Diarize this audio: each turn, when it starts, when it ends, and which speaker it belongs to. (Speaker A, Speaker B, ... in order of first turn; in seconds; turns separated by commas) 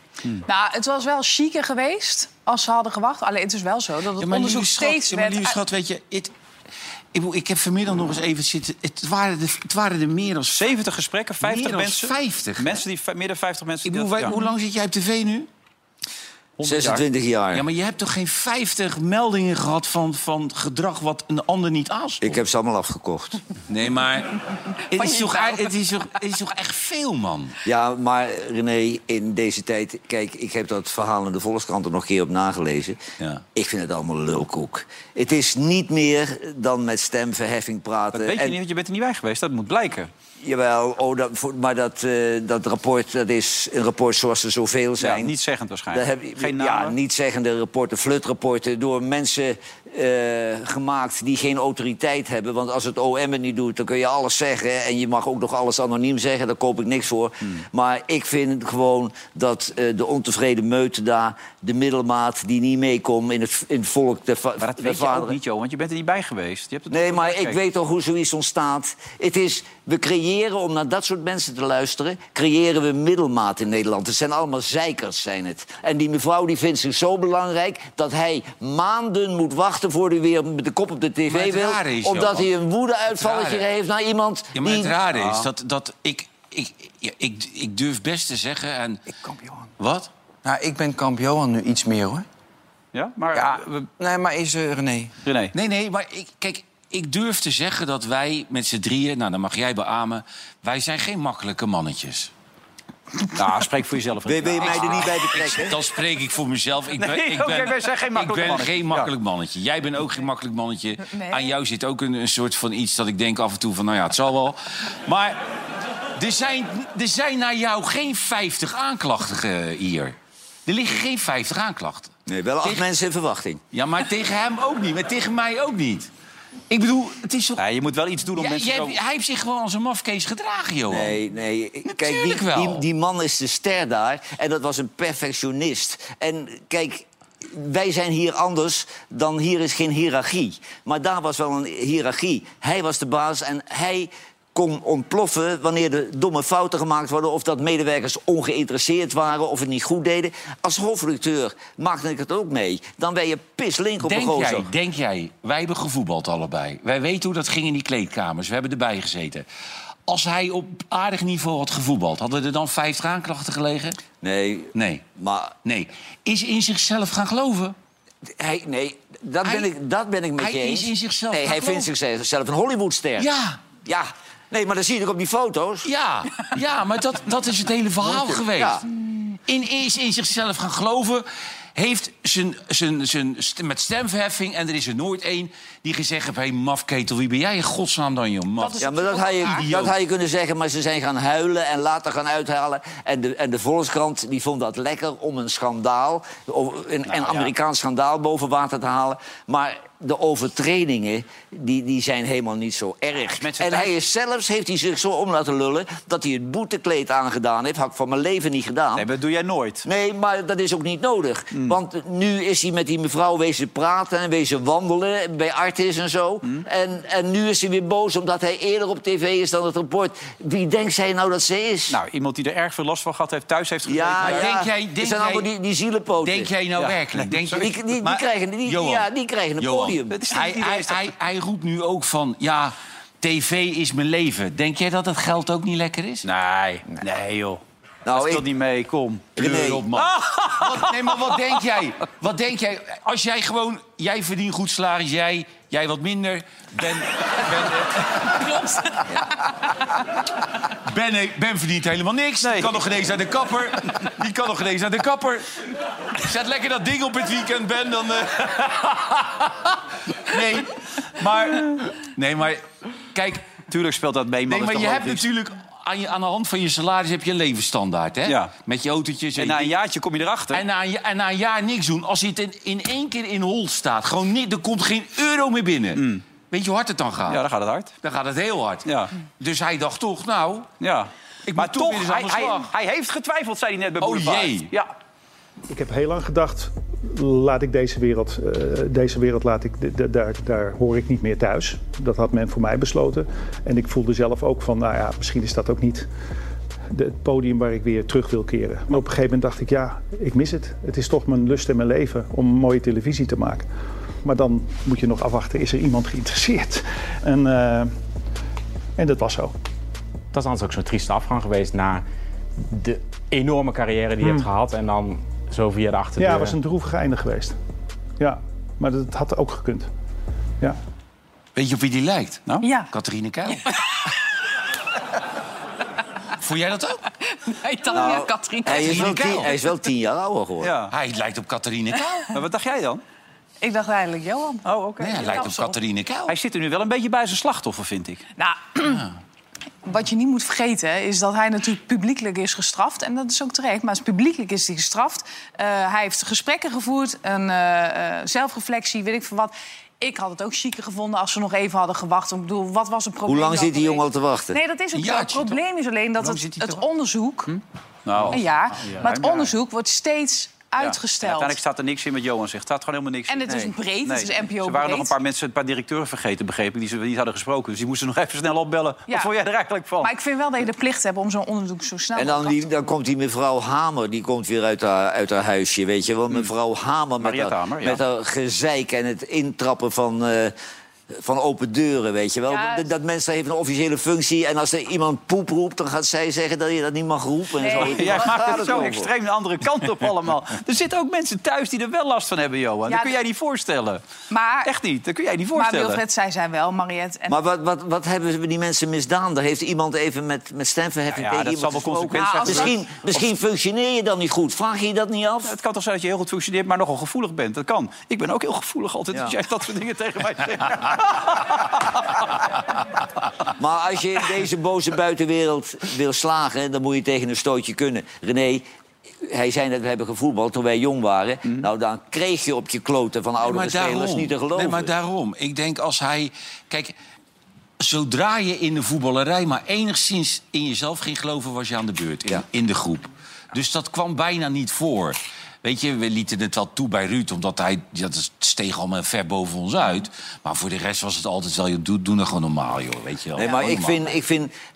Speaker A: 0.5-5.6, Speaker B: 4.2-6.3, Speaker B: 7.1-10.7, Speaker C: 10.5-14.3, Speaker B: 11.4-12.8, Speaker B: 13.8-15.5, Speaker C: 16.6-17.0, Speaker D: 16.6-17.6, Speaker B: 17.5-22.4, Speaker D: 22.2-23.4, Speaker B: 23.7-27.6, Speaker A: 25.1-25.7, Speaker D: 27.6-38.6, Speaker C: 38.1-40.1, Speaker D: 40.4-45.3, Speaker C: 45.0-47.0, Speaker D: 45.9-65.3, Speaker C: 64.6-67.6, Speaker D: 66.9-85.0, Speaker B: 81.3-82.5, Speaker B: 83.2-83.6, Speaker B: 84.5-89.0, Speaker C: 85.1-85.5, Speaker E: 89.1-89.7, Speaker B: 89.8-90.1, Speaker E: 90.4-92.2, Speaker C: 92.9-93.9, Speaker E: 93.3-95.1, Speaker C: 95.2-95.5, Speaker B: 95.5-102.3, Speaker C: 103.3-105.4, Speaker D: 104.2-105.8, Speaker B: 104.9-115.4, Speaker C: 107.0-109.1, Speaker A: 111.1-111.4, Speaker B: 116.2-120.1, Speaker B: 120.7-122.1, Speaker D: 122.3-123.6, Speaker B: 123.7-126.1, Speaker B: 126.7-127.6, Speaker C: 127.6-129.0, Speaker B: 128.3-131.2, Speaker D: 130.9-154.7, Speaker B: 131.9-132.8, Speaker B: 154.0-159.4, Speaker B: 160.1-164.0, Speaker D: 164.2-165.6, Speaker B: 164.7-165.0, Speaker B: 165.6-167.7, Speaker D: 168.2-175.9, Speaker B: 170.4-171.9, Speaker B: 173.2-173.6, Speaker B: 175.8-178.8, Speaker D: 178.0-178.8, Speaker B: 179.5-188.8, Speaker A: 188.6-189.7, Speaker D: 188.8-209.1, Speaker B: 189.6-189.9, Speaker C: 197.1-197.5, Speaker C: 203.3-203.9, Speaker C: 208.9-209.8, Speaker D: 209.8-222.0, Speaker C: 221.9-224.5, Speaker D: 223.8-226.5, Speaker B: 224.2-225.4, Speaker B: 226.2-229.1, Speaker C: 226.8-227.4, Speaker D: 227.5-230.2, Speaker B: 229.6-236.2, Speaker C: 230.1-231.0, Speaker C: 236.2-239.4, Speaker D: 238.0-238.4, Speaker D: 239.4-239.8, Speaker B: 239.4-248.4, Speaker C: 239.9-241.1, Speaker A: 248.5-249.0, Speaker B: 250.7-255.5, Speaker C: 252.4-252.8, Speaker B: 256.2-262.6, Speaker B: 263.1-263.4, Speaker C: 263.7-265.2, Speaker B: 264.5-269.8, Speaker C: 268.2-268.5, Speaker C: 269.4-270.6, Speaker B: 270.5-277.4, Speaker C: 275.9-276.2, Speaker C: 277.3-277.9, Speaker B: 278.0-280.7, Speaker C: 278.8-279.1, Speaker C: 280.8-284.9, Speaker B: 281.5-282.7, Speaker B: 284.0-284.7, Speaker F: 285.7-296.1, Speaker F: 296.9-303.7, Speaker F: 304.2-307.9, Speaker F: 309.0-309.5, Speaker G: 310.3-312.0, Speaker G: 312.7-316.6, Speaker F: 314.2-314.5, Speaker F: 316.2-317.6, Speaker F: 318.2-319.9, Speaker B: 321.6-323.7, Speaker A: 322.6-322.9, Speaker B: 326.4-327.0, Speaker A: 327.4-329.4, Speaker D: 327.9-330.7, Speaker B: 328.7-329.5, Speaker C: 330.6-330.9, Speaker B: 330.9-332.3, Speaker C: 332.3-333.0, Speaker A: 333.6-335.7, Speaker C: 334.6-335.4, Speaker B: 335.0-336.3, Speaker C: 336.3-338.2, Speaker A: 338.4-339.0, Speaker B: 338.8-339.1, Speaker A: 339.8-357.5, Speaker D: 353.2-354.6, Speaker B: 354.9-355.6, Speaker C: 357.5-359.5, Speaker A: 358.3-361.6, Speaker C: 360.8-370.1, Speaker A: 363.3-365.1, Speaker A: 370.0-372.7, Speaker D: 372.1-380.5, Speaker C: 377.2-378.0, Speaker D: 381.1-389.1, Speaker A: 382.5-382.9, Speaker A: 387.6-388.6, Speaker C: 387.7-394.0, Speaker A: 392.9-393.1, Speaker A: 394.3-394.7, Speaker C: 394.6-396.0, Speaker A: 395.5-397.4, Speaker D: 397.3-405.5, Speaker C: 401.1-403.2, Speaker A: 402.1-402.7, Speaker C: 405.4-412.2, Speaker D: 413.6-418.6, Speaker D: 419.2-424.9, Speaker B: 423.4-426.9, Speaker B: 427.8-444.1, Speaker D: 443.4-444.5